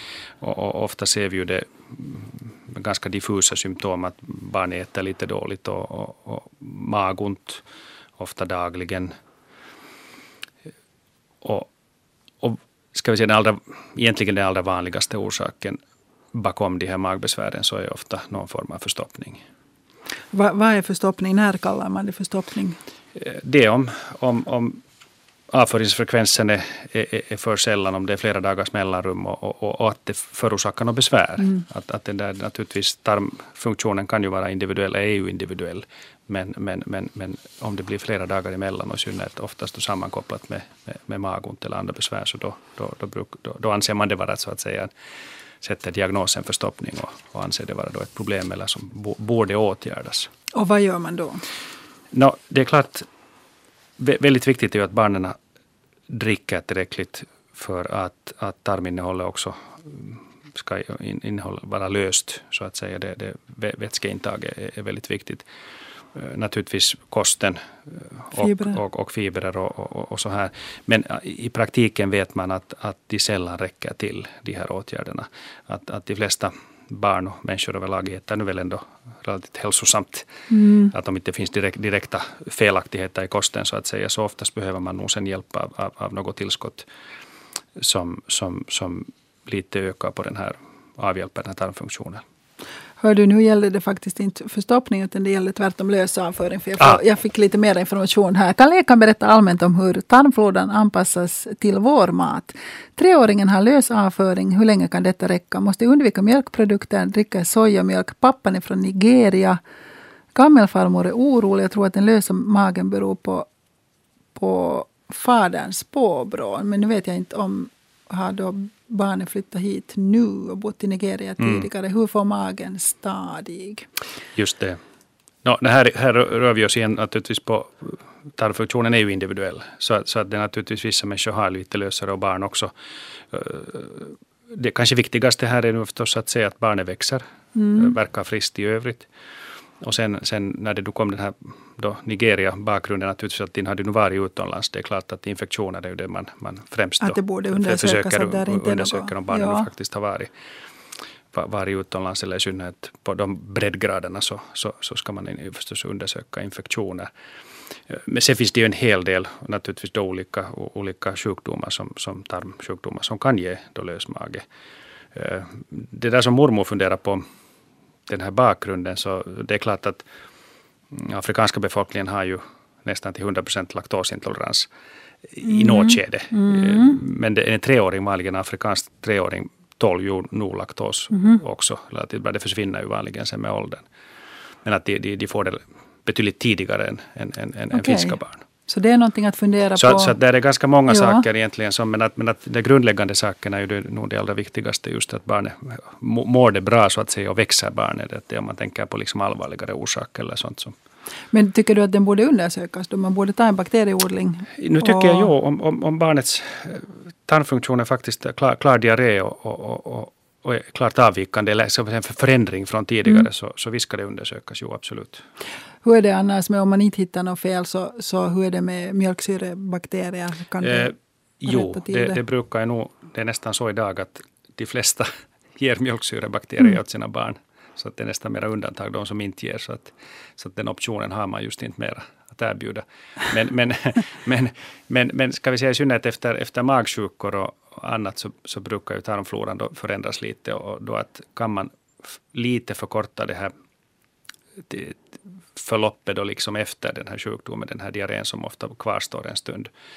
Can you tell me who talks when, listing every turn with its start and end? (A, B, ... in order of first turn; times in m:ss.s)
0:00.4-0:07.6 A
0:08.2-0:09.1 A
0:11.4-0:11.7 A
0:12.4-0:15.8 A
0:16.3-0:19.4 A
0:20.3-0:22.8 B
0:23.2-0:24.8 A
0:25.5-0:44.9 A
0:45.6-0:50.3 A
0:50.5-0:51.4 B
0:52.1-0:53.1 A
0:54.0-0:55.4 A
0:56.1-1:05.5 A
1:06.1-1:20.3 A
1:08.4-1:08.8 B
1:20.5-1:20.9 B
1:20.9-1:26.9 A
1:27.8-1:32.2 A
1:33.0-1:49.6 B
1:50.3-1:53.5 B
1:54.4-2:03.9 B
2:01.4-2:01.7 A
2:04.4-2:04.8 A
2:05.4-2:12.7 A
2:13.3-2:17.2 A
2:17.6-2:17.9 B
2:17.8-2:19.1 A
2:19.8-2:30.3 A
2:27.0-2:29.7 B
2:31.3-2:37.1 A
2:37.9-2:44.5 A
2:45.1-2:47.2 A
2:48.1-2:50.0 A
2:50.9-2:54.7 A
2:55.3-3:03.9 A
2:55.4-2:57.0 B
3:01.1-3:01.4 B
3:04.6-3:08.5 A
3:07.7-3:10.2 B
3:09.8-3:20.8 A
3:10.9-3:11.2 B
3:21.3-3:25.3 B
3:24.6-3:35.2 A
3:35.8-3:40.9 B
3:40.6-4:03.5 A
3:41.5-3:42.2 B
4:04.7-4:05.0 A
4:05.6-4:09.7 A